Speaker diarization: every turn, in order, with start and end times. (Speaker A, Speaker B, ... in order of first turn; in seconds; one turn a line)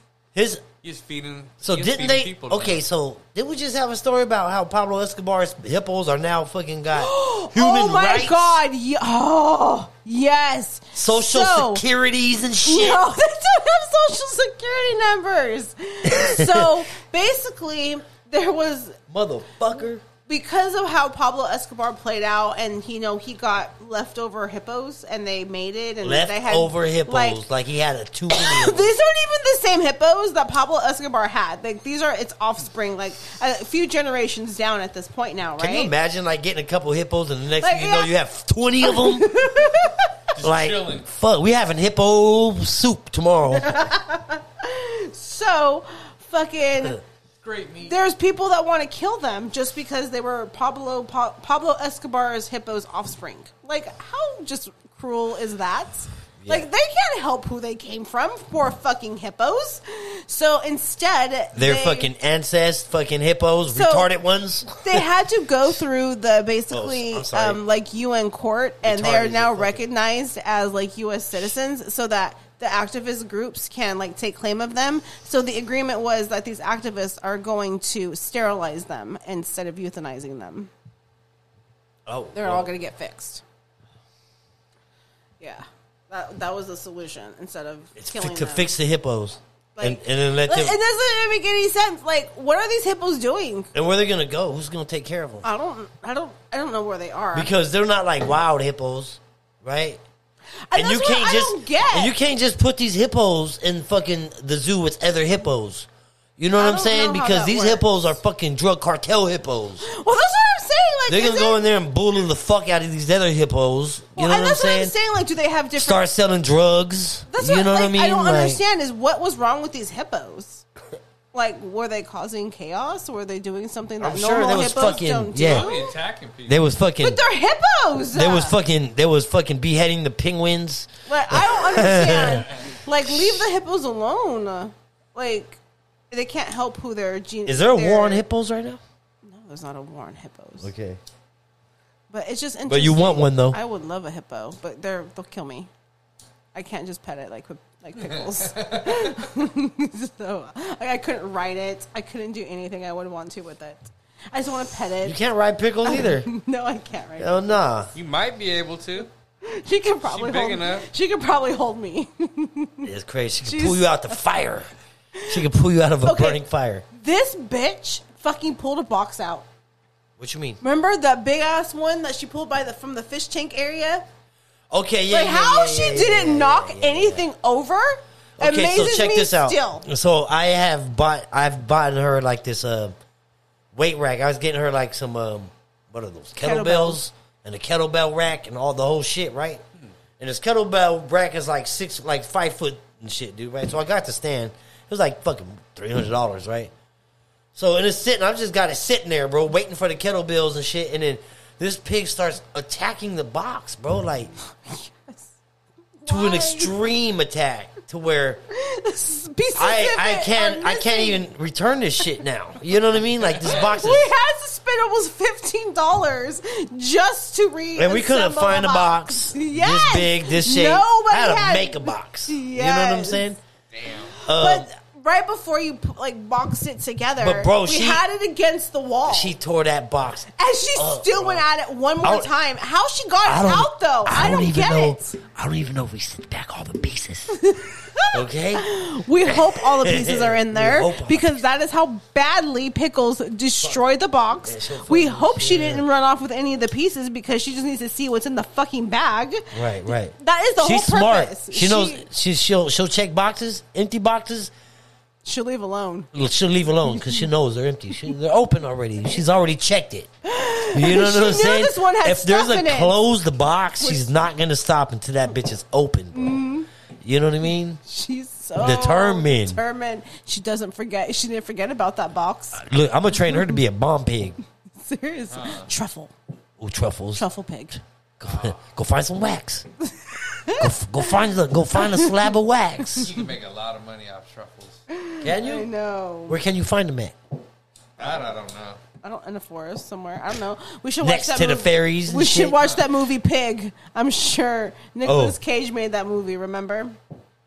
Speaker A: 0.3-0.6
Speaker B: 0.8-2.8
Speaker A: 1.6-8.6
Speaker C: 6.9-11.8
Speaker A: 10.9-13.1
Speaker C: 12.6-19.0
Speaker A: 16.0-16.8
Speaker A: 19.1-20.0
Speaker C: 20.2-27.4
Speaker A: 26.0-28.9
Speaker C: 28.3-35.9
Speaker A: 35.6-39.4
Speaker C: 37.6-38.1
Speaker C: 38.8-40.1
Speaker B: 40.3-41.1
Speaker A: 40.4-43.9
Speaker C: 43.5-47.0
Speaker B: 47.4-47.9
Speaker C: 47.9-62.1
Speaker A: 56.4-56.7
Speaker A: 61.5-65.0
Speaker C: 63.7-64.1
Speaker C: 64.8-80.7
Speaker A: 66.7-67.6
Speaker A: 68.8-69.8
Speaker A: 82.0-82.7
Speaker C: 82.3-83.4
Speaker C: 85.4-88.7
Speaker A: 88.0-90.8
Speaker C: 89.8-93.7
Speaker A: 93.7-95.5
Speaker C: 95.4-97.5
Speaker A: 97.3-100.0
Speaker C: 100.7-102.1
Speaker A: 100.7-109.8
Speaker C: 106.6-107.8
Speaker C: 109.8-111.6
Speaker A: 111.1-114.9
Speaker C: 114.2-116.0
Speaker A: 115.8-118.6
Speaker C: 117.3-120.6
Speaker C: 121.3-125.9
Speaker A: 124.0-125.7
Speaker B: 125.4-126.6
Speaker A: 126.5-127.2
Speaker C: 127.0-128.6
Speaker A: 128.1-132.4
Speaker C: 131.1-135.6
Speaker B: 132.4-132.7
Speaker C: 136.1-138.2
Speaker A: 137.4-138.8
Speaker C: 139.2-140.7
Speaker A: 140.6-141.0
Speaker C: 142.1-145.7
Speaker A: 142.7-143.6
Speaker C: 146.5-155.2
Speaker B: 148.0-149.2
Speaker A: 155.0-156.3
Speaker C: 155.8-157.6
Speaker A: 157.2-157.9
Speaker B: 157.9-159.1
Speaker C: 159.4-162.9
Speaker B: 160.0-160.9
Speaker A: 162.8-164.7
Speaker C: 163.4-164.1
Speaker A: 165.3-166.8
Speaker C: 166.0-166.4
Speaker C: 166.9-169.4
Speaker A: 170.2-170.6
Speaker C: 170.6-174.1
Speaker A: 174.7-177.2
Speaker C: 175.1-179.8
Speaker A: 178.4-182.9
Speaker A: 183.7-189.6
Speaker C: 186.4-187.0
Speaker A: 190.2-196.7
Speaker A: 197.5-204.3
Speaker C: 204.6-205.3
Speaker C: 206.0-206.7
Speaker A: 206.1-208.4
Speaker C: 208.5-211.2
Speaker A: 209.6-214.1
Speaker B: 213.3-213.6
Speaker C: 213.4-223.3
Speaker A: 217.8-223.4
Speaker B: 223.7-224.1
Speaker C: 224.1-229.3
Speaker A: 224.2-224.7
Speaker A: 227.2-228.0
Speaker A: 229.1-231.4
Speaker C: 230.3-235.2
Speaker A: 232.0-232.3
Speaker A: 233.2-237.4
Speaker C: 237.3-252.1
Speaker A: 238.1-238.7
Speaker A: 239.2-241.4
Speaker A: 244.4-245.8
Speaker A: 249.5-254.5
Speaker C: 255.2-256.1
Speaker A: 256.1-260.1
Speaker C: 256.9-257.2
Speaker C: 260.2-262.9
Speaker A: 260.7-266.4
Speaker C: 263.8-264.1
Speaker C: 266.1-266.7
Speaker A: 267.0-267.8
Speaker C: 267.8-272.6
Speaker A: 268.6-269.6
Speaker A: 272.5-274.4
Speaker C: 274.8-276.1
Speaker B: 275.3-275.7
Speaker A: 276.6-277.2
Speaker C: 277.1-277.8
Speaker A: 278.2-279.6
Speaker B: 278.2-278.6
Speaker C: 280.0-280.7
Speaker A: 280.6-283.1
Speaker C: 281.7-282.1
Speaker B: 283.0-284.8
Speaker C: 284.9-286.4
Speaker A: 285.2-285.7
Speaker A: 286.3-287.1
Speaker B: 288.0-288.8
Speaker C: 289.0-297.0
Speaker A: 291.0-292.7
Speaker A: 295.0-295.4